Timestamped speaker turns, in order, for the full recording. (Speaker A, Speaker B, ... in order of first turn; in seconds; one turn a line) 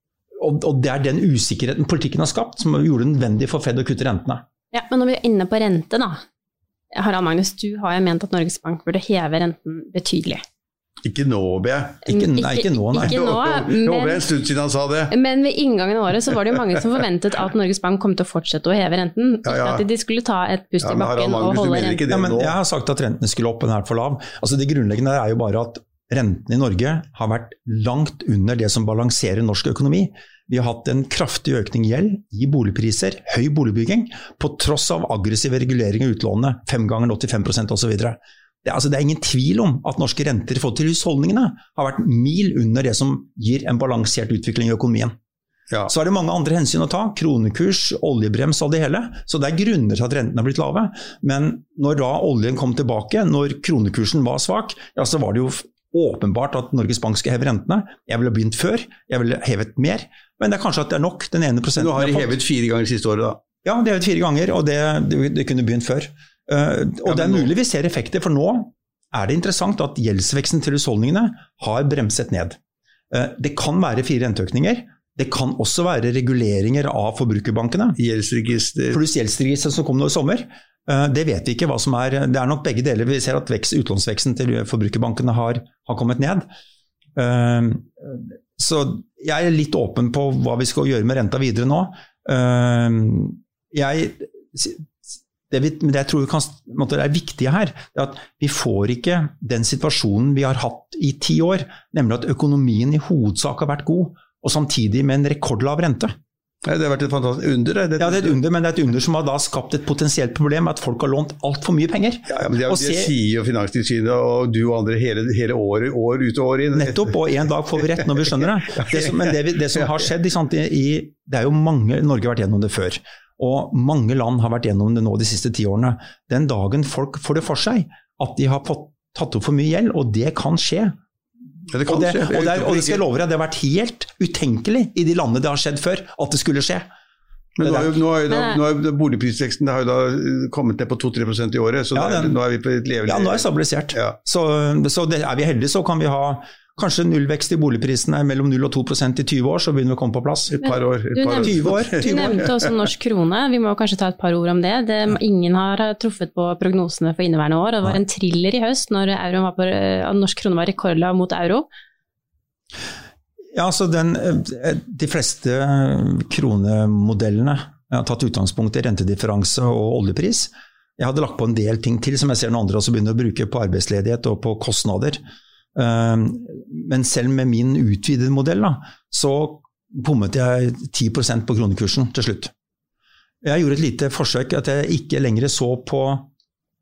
Speaker A: 0.4-4.4
Speaker B: 4.7-6.2
Speaker B: 6.9-10.4
Speaker C: 11.0-12.0
Speaker A: 12.1-13.2
Speaker B: 12.1-14.2
Speaker C: 12.9-15.1
Speaker B: 15.1-22.0
Speaker C: 19.4-19.8
Speaker C: 20.8-22.5
Speaker A: 22.1-45.1
Speaker A: 45.9-62.4
Speaker C: 61.8-63.4
Speaker A: 63.6-72.6
Speaker C: 67.0-67.5
Speaker A: 73.1-78.0
Speaker C: 78.0-79.0
Speaker A: 78.9-86.5
Speaker A: 87.2-94.9
Speaker A: 95.5-106.1
Speaker C: 106.6-108.4
Speaker A: 108.0-113.1
Speaker C: 112.3-117.1
Speaker A: 116.7-131.0
Speaker C: 118.7-119.8
Speaker C: 131.7-133.0
Speaker A: 131.8-136.9
Speaker C: 137.6-143.4
Speaker A: 137.6-138.0
Speaker A: 141.9-142.4
Speaker A: 143.1-150.5
Speaker C: 150.5-152.6
Speaker B: 150.6-161.7
Speaker A: 151.4-152.4
Speaker A: 163.5-175.2
Speaker A: 175.7-182.5
Speaker A: 183.4-186.3